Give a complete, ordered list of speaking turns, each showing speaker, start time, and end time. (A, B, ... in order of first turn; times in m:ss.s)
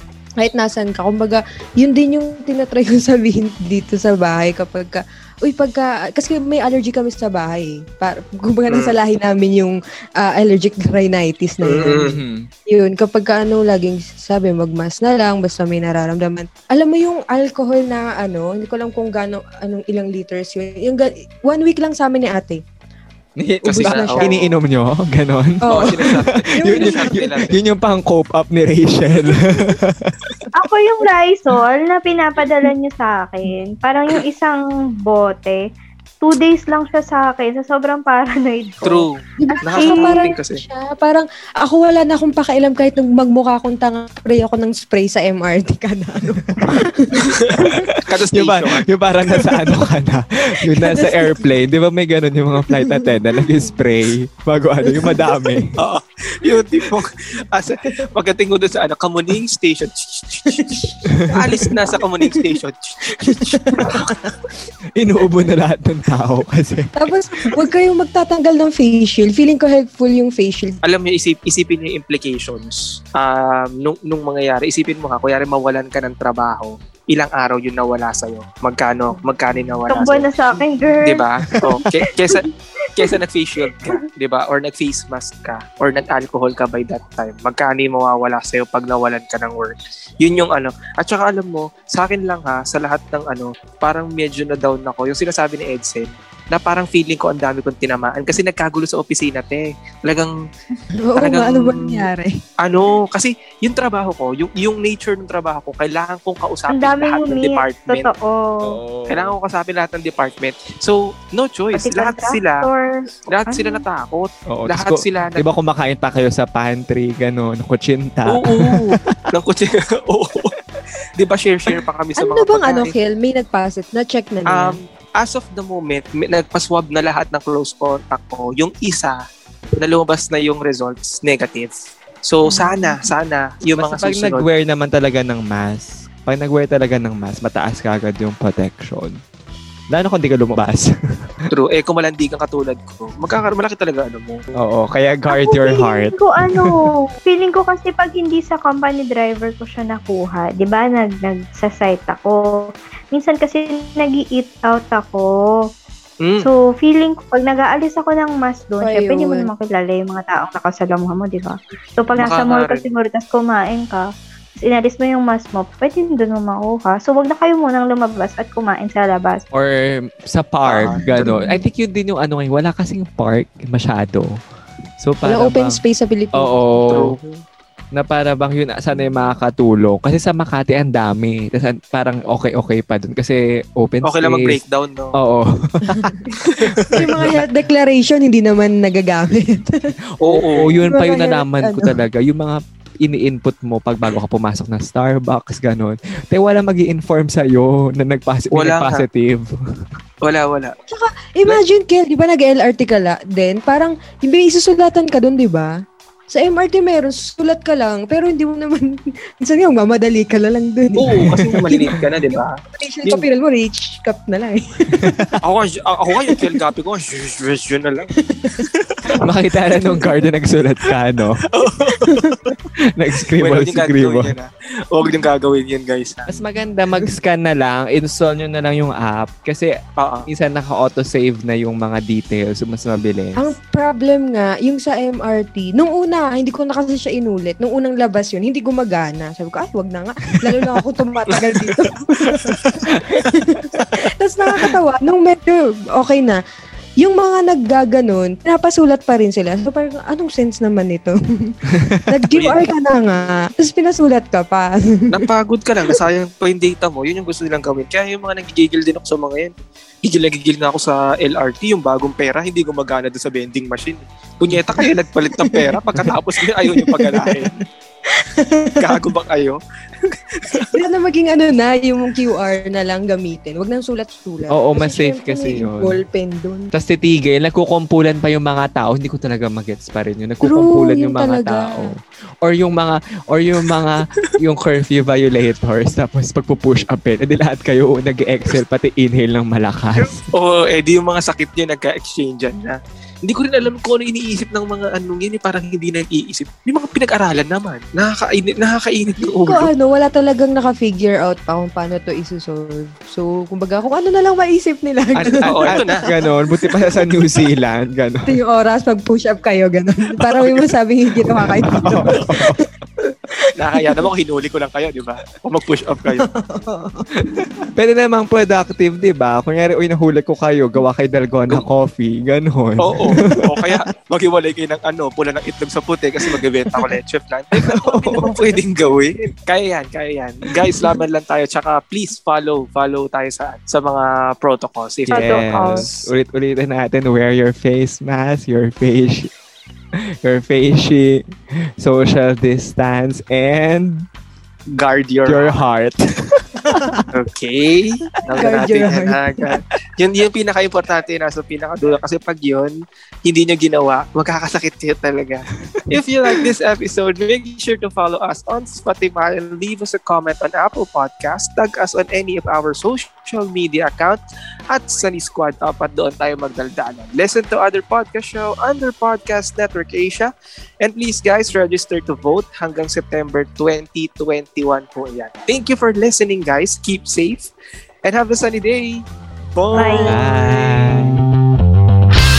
0:00.4-0:12.1 A
0:11.6-0:12.2 B
0:12.0-0:12.5 C
0:12.7-0:22.6 A
0:23.4-0:30.3 C
0:23.6-0:24.5 B
0:23.7-0:24.3 A
0:25.6-0:27.2 A
0:25.7-0:27.6 B
0:30.5-0:35.6 D
0:36.2-0:40.3 D
0:38.8-0:40.6 B
0:39.4-0:47.8 A
0:47.2-0:48.9 B
0:47.6-0:55.8 C
0:50.7-0:51.6 A
0:52.6-0:53.7 A
0:54.8-0:55.6 A
0:55.8-1:04.1 B
1:00.5-1:02.4 A
1:01.1-1:01.6 C
1:03.2-1:04.3 A
1:05.0-1:07.6 C
1:07.0-1:10.8 A
1:10.8-1:20.4 B
1:19.9-1:21.2 D
1:21.0-1:22.4 B
1:23.0-1:40.3 B
1:41.1-1:42.3 A
1:41.2-1:42.0 B
1:42.6-1:48.1 B
1:46.7-1:48.8 D
1:48.6-1:49.4 C
1:49.1-1:52.7 B
1:51.7-1:53.8 D
1:53.3-1:55.4 B
1:54.5-1:59.2 C
1:58.3-2:00.5 B
2:01.2-2:02.9 B
2:02.2-2:04.8 A
2:04.5-2:09.2 B
2:09.8-2:14.4 B
2:12.5-2:13.0 A
2:13.8-2:19.2 C
2:19.9-2:20.9 C
2:21.5-2:24.4 B
2:24.6-2:26.7 C
2:25.3-2:32.6 D
2:33.1-2:35.3 D
2:36.2-2:36.5 B
2:36.4-2:44.0 D
2:38.8-2:39.5 A
2:42.2-2:42.8 B
2:44.6-2:49.4 D
2:49.5-2:54.3 C
2:50.6-2:51.3 B
2:51.2-2:51.6 A
2:55.0-2:55.8 C
2:55.2-2:57.1 A
2:56.3-2:57.2 C
2:56.9-2:57.2 B
2:57.9-3:04.6 C
3:04.0-3:05.2 B
3:05.1-3:07.5 C
3:05.9-3:06.2 A
3:06.4-3:07.0 B
3:06.9-3:09.9 A
3:10.2-3:10.8 B
3:10.2-3:19.5 C
3:10.8-3:11.9 A
3:18.5-3:19.0 B
3:20.2-3:20.7 B
3:20.9-3:25.7 A
3:26.3-3:31.7 A
3:31.0-3:33.2 B
3:31.2-3:31.8 C
3:32.3-3:35.4 A
3:35.0-3:35.3 C
3:35.4-3:38.1 B
3:38.2-3:38.6 A
3:38.6-3:39.0 B
3:39.1-3:41.4 C
3:41.4-3:42.3 B
3:42.0-3:42.6 A
3:43.0-3:44.4 C
3:43.4-3:46.3 B
3:46.3-3:49.7 C
3:50.0-3:50.3 B
3:50.3-3:53.5 C
3:53.4-4:06.4 A
4:07.0-4:11.5 A
4:11.7-4:12.0 C
4:12.0-4:15.2 A
4:12.3-4:12.6 B
4:15.1-4:27.5 B
4:24.8-4:27.5 A
4:28.1-4:29.0 A
4:28.8-4:30.7 B
4:30.7-4:36.7 A
4:34.5-4:36.0 C
4:36.7-4:50.3 C
4:40.4-4:41.8 A
4:50.0-4:59.7 B
4:59.2-5:07.4 A
5:05.2-5:06.0 B
5:05.4-5:08.4 C
5:08.3-5:12.6 A
5:11.4-5:12.6 C
5:11.8-5:12.2 B
5:13.6-5:16.2 B
5:13.8-5:14.1 A
5:16.3-5:17.5 A
5:17.2-5:23.4 C
5:22.8-5:36.0 B
5:27.6-5:28.3 C
5:35.1-5:39.3 C
5:35.1-5:35.9 D
5:40.2-5:41.2 C
5:41.8-5:44.1 C
5:44.8-5:45.6 B
5:45.3-5:46.9 C
5:46.7-5:47.0 A
5:47.1-6:04.2 B
5:48.2-5:49.6 A
6:04.7-6:10.3 B
6:10.8-6:17.5 B
6:18.0-6:19.0 B
6:19.5-6:20.2 B
6:19.7-6:20.2 D
6:20.0-6:21.2 C